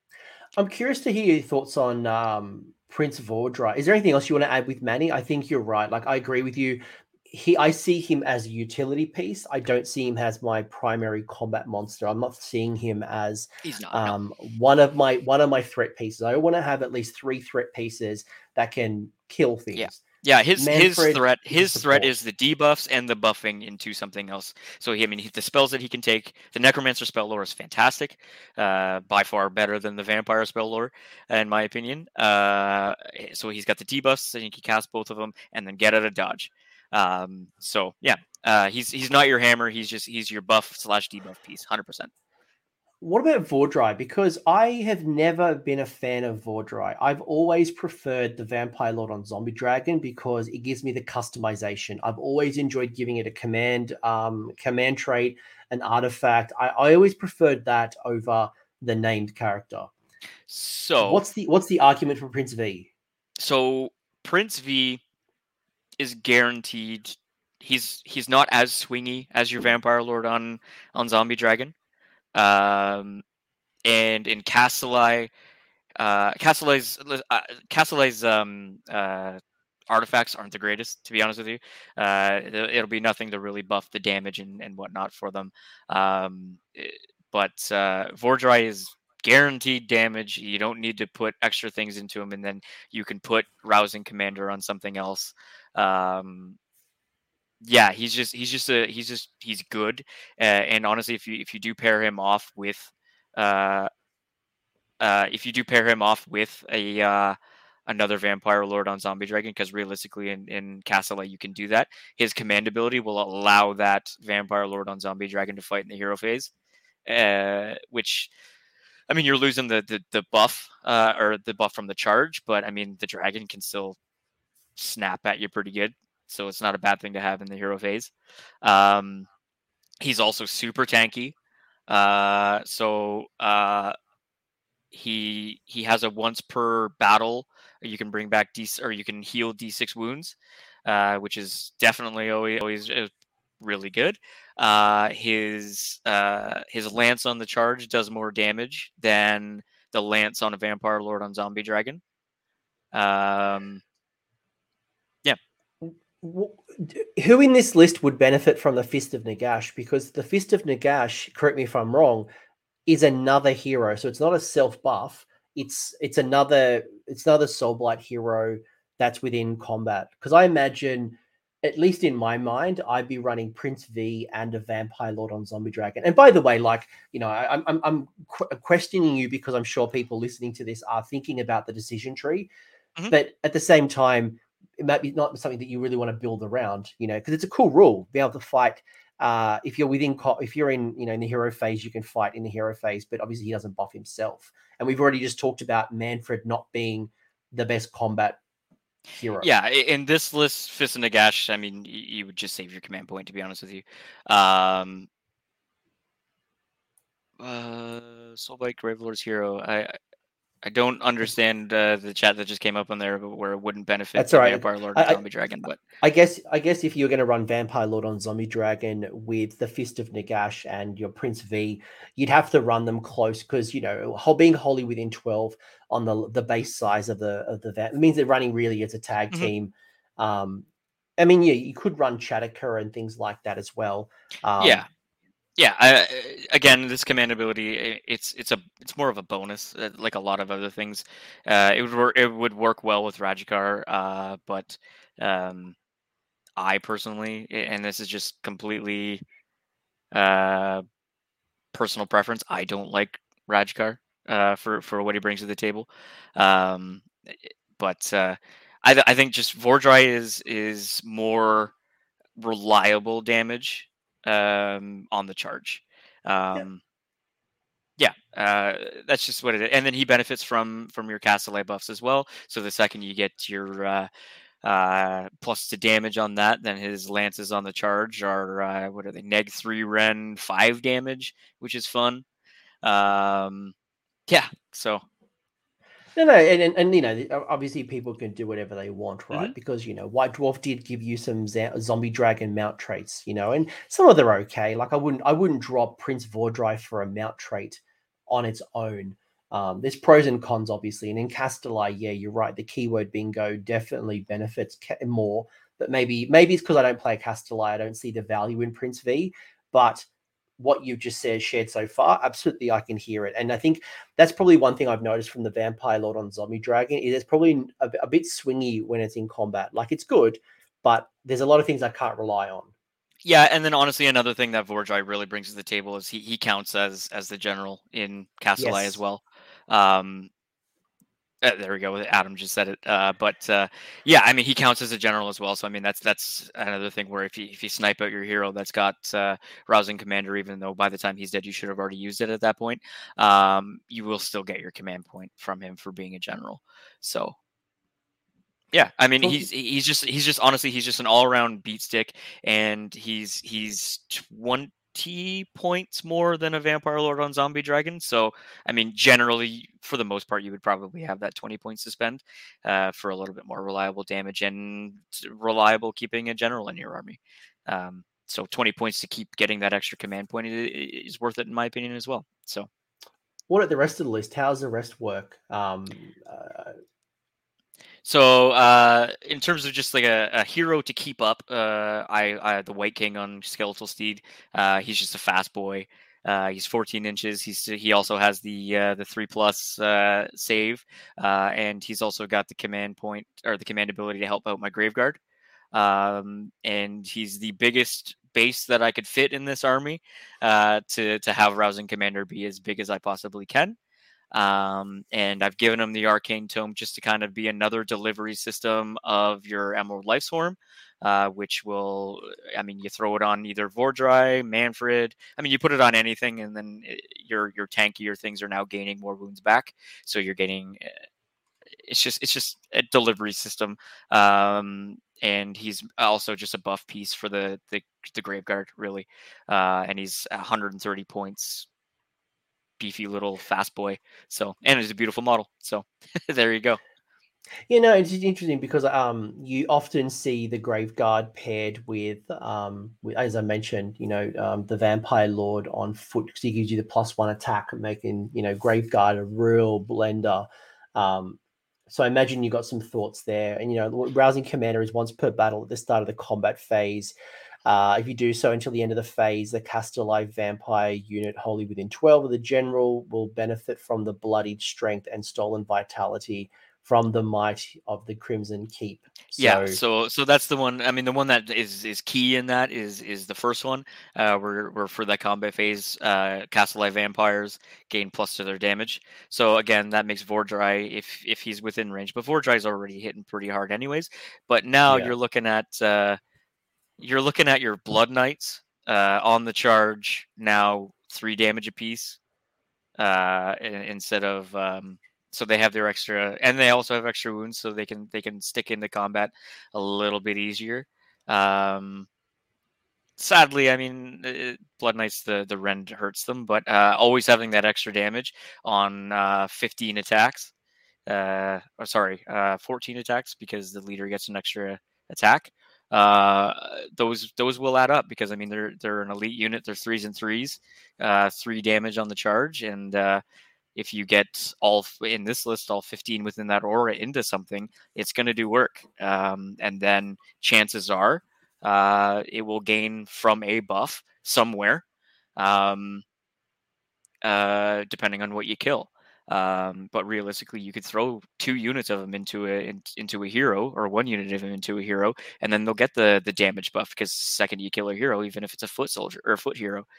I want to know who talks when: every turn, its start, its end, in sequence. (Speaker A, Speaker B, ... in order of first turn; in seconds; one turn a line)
Speaker A: 0.6-20.0
Speaker B: 13.6-14.2
Speaker B: 19.8-42.1
Speaker A: 20.6-22.1
Speaker A: 43.0-59.9
Speaker B: 60.5-61.2
Speaker A: 61.0-62.9
Speaker B: 63.4-65.0
Speaker B: 66.0-71.7
Speaker B: 72.3-73.2
Speaker B: 73.8-75.3
Speaker B: 76.0-96.6
Speaker B: 97.6-103.9
Speaker B: 105.0-107.4
Speaker B: 107.9-116.5
Speaker B: 117.1-118.3
Speaker B: 119.1-124.0
Speaker B: 124.8-129.3
Speaker B: 130.0-131.4
Speaker B: 131.9-133.9
Speaker B: 134.9-143.1
Speaker B: 143.6-152.0
Speaker B: 152.9-153.8
Speaker A: 155.8-162.3
Speaker A: 162.9-182.5
Speaker A: 183.1-198.4
Speaker A: 199.2-199.5
Speaker B: 199.4-205.1
Speaker B: 207.4-210.0
Speaker B: 210.6-215.8
Speaker A: 214.2-215.2
Speaker A: 216.0-230.7
Speaker A: 231.2-234.8
Speaker B: 234.6-234.9
Speaker B: 235.6-245.8
Speaker B: 246.6-249.2
Speaker B: 250.1-250.8
Speaker B: 251.7-261.7
Speaker B: 262.4-266.8
Speaker B: 268.0-274.1
Speaker B: 274.6-282.2
Speaker B: 282.8-283.7
Speaker B: 284.3-285.0
Speaker A: 286.2-310.1
Speaker A: 310.6-322.7
Speaker B: 323.2-330.3
Speaker A: 328.6-329.0
Speaker B: 331.4-347.4
Speaker B: 348.7-372.7
Speaker A: 373.5-376.8
Speaker B: 378.0-395.2
Speaker B: 395.7-403.8
Speaker B: 404.3-420.9
Speaker B: 421.8-431.7
Speaker B: 432.8-436.8
Speaker A: 437.7-457.1
Speaker A: 457.7-469.8
Speaker B: 469.4-486.2
Speaker A: 484.9-485.1
Speaker B: 487.0-492.2
Speaker B: 493.0-502.1
Speaker B: 503.2-510.5
Speaker B: 511.1-523.2
Speaker B: 523.8-534.8
Speaker B: 535.4-536.0
Speaker B: 537.2-549.9